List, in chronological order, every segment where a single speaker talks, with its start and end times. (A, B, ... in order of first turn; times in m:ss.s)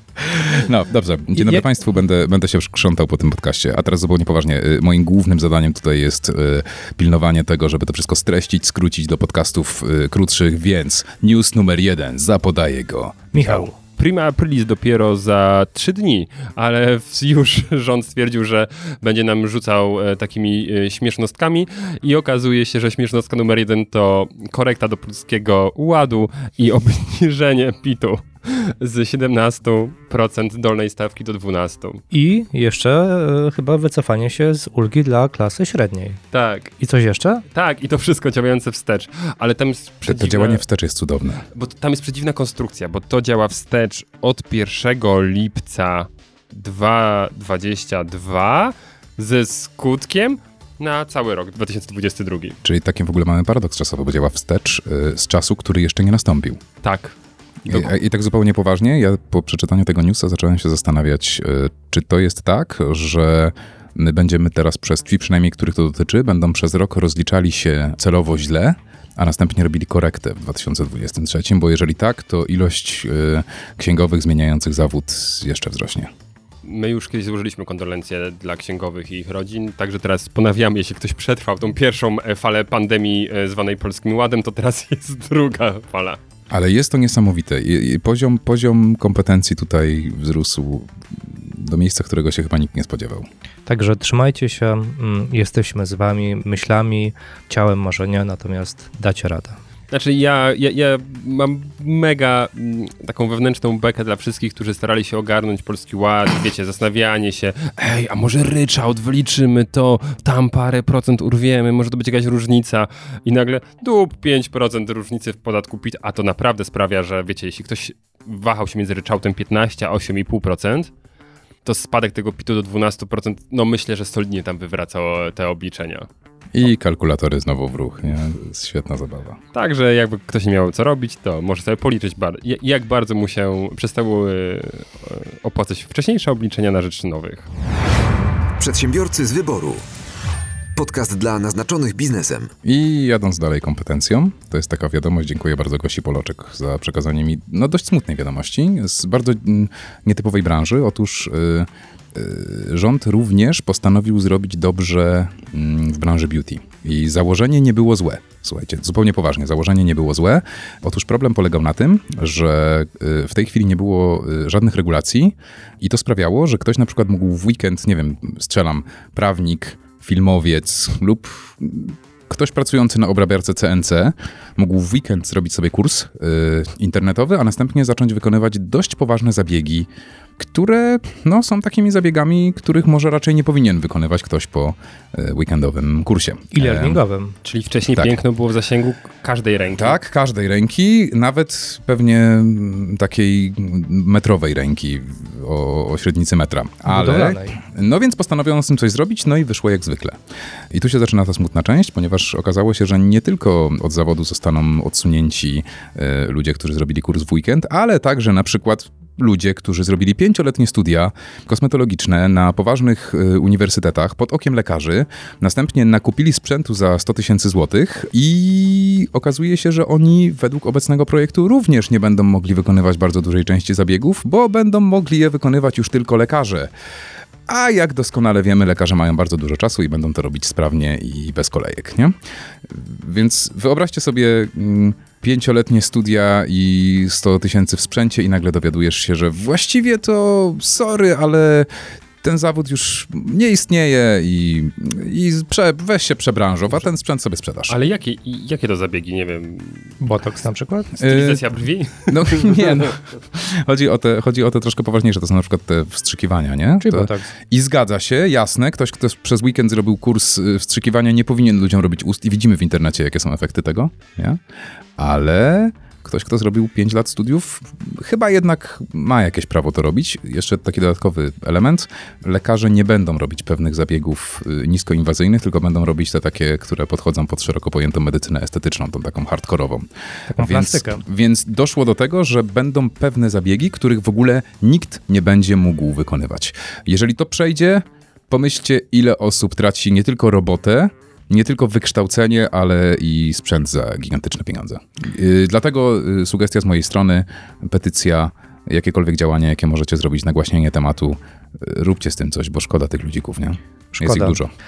0:00.2-0:13.7 A
0:01.4-0:01.6 B
0:13.3-0:13.8 B
0:13.8-0:32.0 C
0:32.1-0:36.2 B
0:36.3-0:36.8 C
0:36.8-0:37.4 B
0:37.5-0:40.6 C
0:40.0-0:41.4 A
0:41.6-0:52.6 C
0:52.6-0:56.6 A
0:56.8-0:57.2 C
0:57.7-1:16.1 A
1:16.6-1:26.2 C
1:26.5-1:33.3 A
1:33.7-1:39.6 B
1:39.9-2:00.9 C
2:01.6-2:06.1 C
2:06.5-2:09.4 A
2:09.5-2:17.5 C
2:18.6-2:19.8 D
2:20.8-2:22.5 D
2:22.6-3:07.0 A
3:06.5-3:07.4 B
3:07.4-3:10.0 C
3:08.0-3:08.2 A
3:09.8-3:20.2 A
3:16.9-3:17.6 B
3:20.7-3:46.7 A
3:47.5-3:52.2 A
3:52.7-4:01.7 A
4:02.2-4:07.8 A
4:07.7-4:10.0 C
4:10.0-4:10.9 B
4:10.9-4:12.9 C
4:11.0-4:11.4 A
4:12.1-4:24.4 A
4:16.8-4:17.3 B
4:25.0-5:04.5 A
4:40.3-4:41.0 B
5:04.0-5:04.4 B